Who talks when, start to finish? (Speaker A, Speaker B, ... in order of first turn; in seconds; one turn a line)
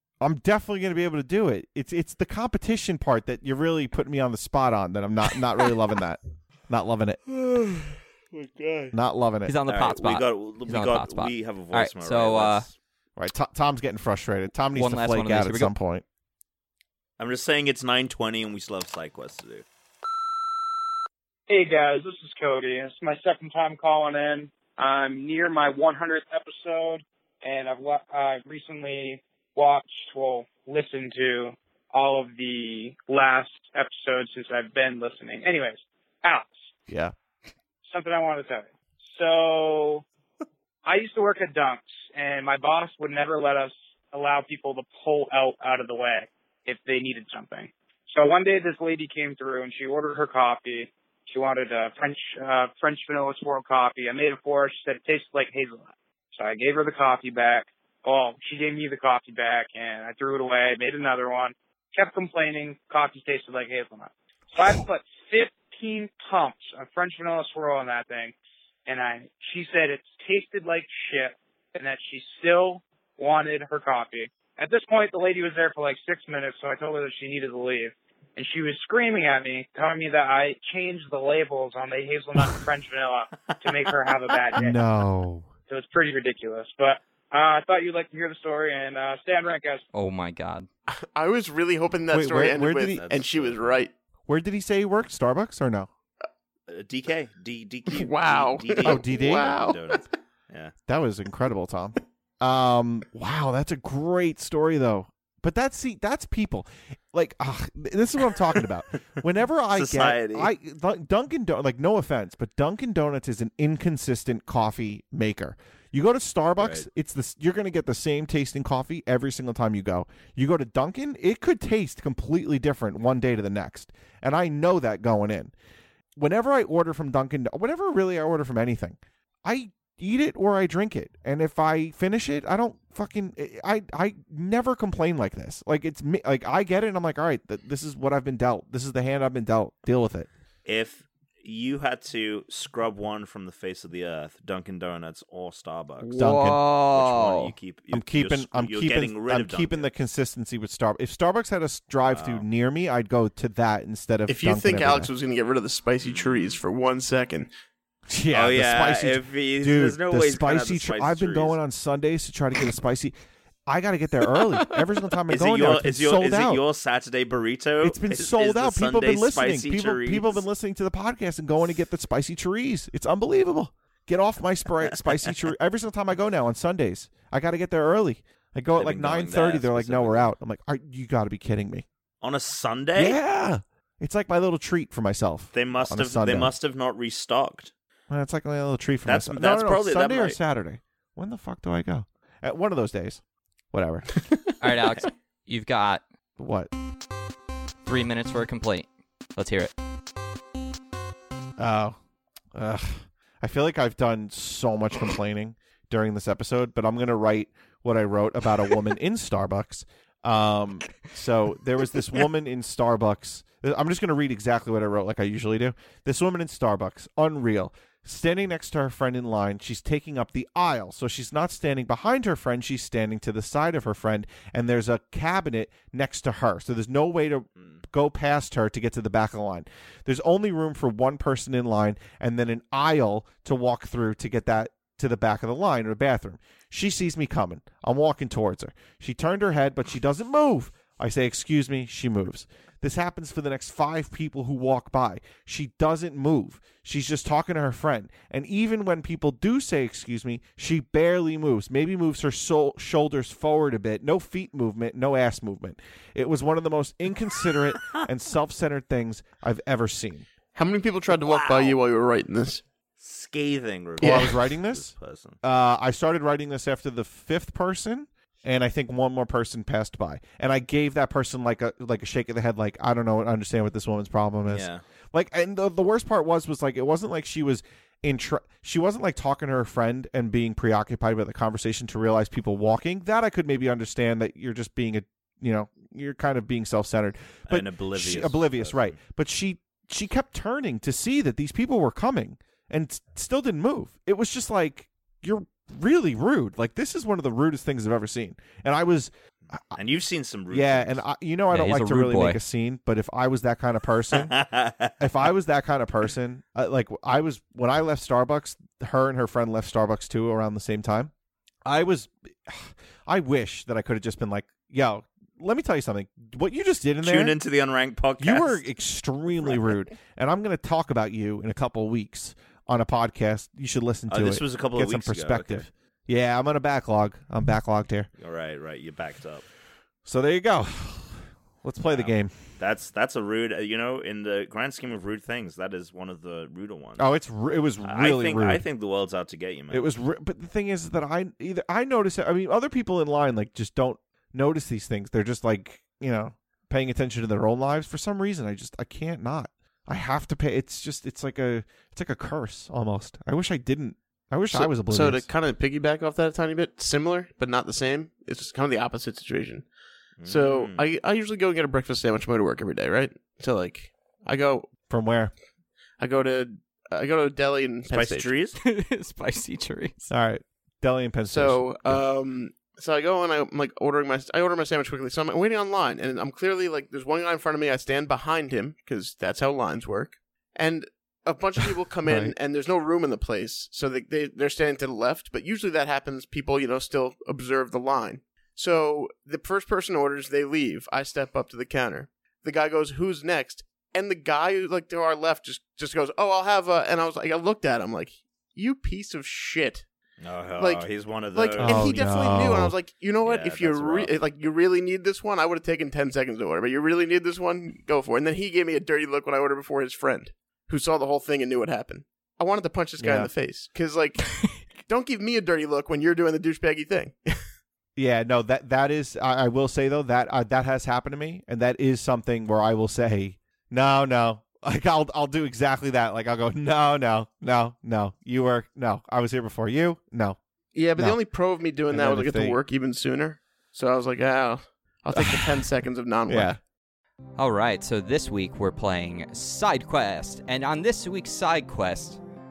Speaker A: 0.2-7.2
Speaker B: 7.3-7.7
Speaker B: 8.3-8.9
Speaker A: 8.9-9.5
Speaker C: 9.5-12.7
Speaker B: 9.7-12.7
Speaker A: 13.2-16.0
Speaker C: 14.8-15.7
Speaker B: 17.2-19.6
Speaker D: 21.5-36.5
Speaker A: 36.9-37.1
Speaker D: 37.9-40.0
Speaker D: 40.8-68.3
Speaker D: 68.9-84.8
Speaker B: 83.5-83.9
Speaker A: 84.6-85.5
Speaker D: 85.7-89.8
Speaker C: 89.9-90.7
Speaker E: 90.9-93.9
Speaker A: 92.1-93.0
Speaker B: 92.9-93.8
Speaker A: 94.3-95.9
Speaker B: 96.7-100.7
Speaker E: 97.9-100.0
Speaker A: 98.8-99.7
Speaker A: 100.9-125.5
Speaker B: 109.7-110.5
Speaker B: 116.6-116.9
Speaker A: 126.2-140.3
Speaker B: 140.7-146.2
Speaker C: 146.0-147.5
Speaker A: 146.2-146.6
Speaker B: 146.8-149.9
Speaker A: 147.9-155.1
Speaker B: 152.1-152.4
Speaker E: 154.3-157.5
Speaker B: 156.0-156.6
Speaker A: 158.1-163.1
Speaker B: 158.3-161.6
Speaker A: 163.7-166.6
Speaker B: 165.3-170.4
Speaker A: 167.8-181.8
Speaker B: 178.8-180.3
Speaker B: 182.2-183.2
Speaker A: 183.0-186.5
Speaker B: 185.5-187.7
Speaker A: 188.1-194.1
Speaker B: 189.1-190.4
Speaker C: 194.6-196.0
Speaker A: 196.4-196.7
Speaker C: 197.8-199.7
Speaker A: 201.6-202.0
Speaker A: 202.5-260.3
Speaker E: 260.6-262.6
Speaker B: 261.3-261.8
Speaker B: 263.0-265.4
Speaker E: 264.0-264.4
Speaker A: 264.0-299.1
Speaker B: 274.5-274.8
Speaker B: 287.5-289.0
Speaker B: 299.7-301.0
Speaker A: 300.5-304.4
Speaker C: 301.5-302.4
Speaker B: 304.2-304.9
Speaker A: 305.0-311.1
Speaker A: 311.7-317.4
Speaker B: 317.0-318.6
Speaker A: 318.2-328.1
Speaker B: 324.1-325.7
Speaker B: 328.2-329.4
Speaker A: 330.1-332.3
Speaker B: 331.9-337.1
Speaker A: 337.0-338.6
Speaker B: 337.9-339.9
Speaker A: 339.7-355.3
Speaker E: 354.5-359.7
Speaker B: 360.2-360.8
Speaker E: 360.3-364.7
Speaker A: 364.9-365.3
Speaker E: 366.0-368.3
Speaker B: 367.9-368.6
Speaker C: 368.6-370.0
Speaker A: 370.1-372.0
Speaker E: 371.3-399.9
Speaker B: 400.2-402.6
Speaker E: 400.6-417.4
Speaker A: 401.6-402.7
Speaker B: 403.2-404.1
Speaker A: 413.0-413.3
Speaker A: 418.0-430.4
Speaker E: 430.7-436.6
Speaker A: 431.9-432.6
Speaker A: 435.1-435.6
Speaker A: 436.3-436.6
Speaker C: 437.4-442.2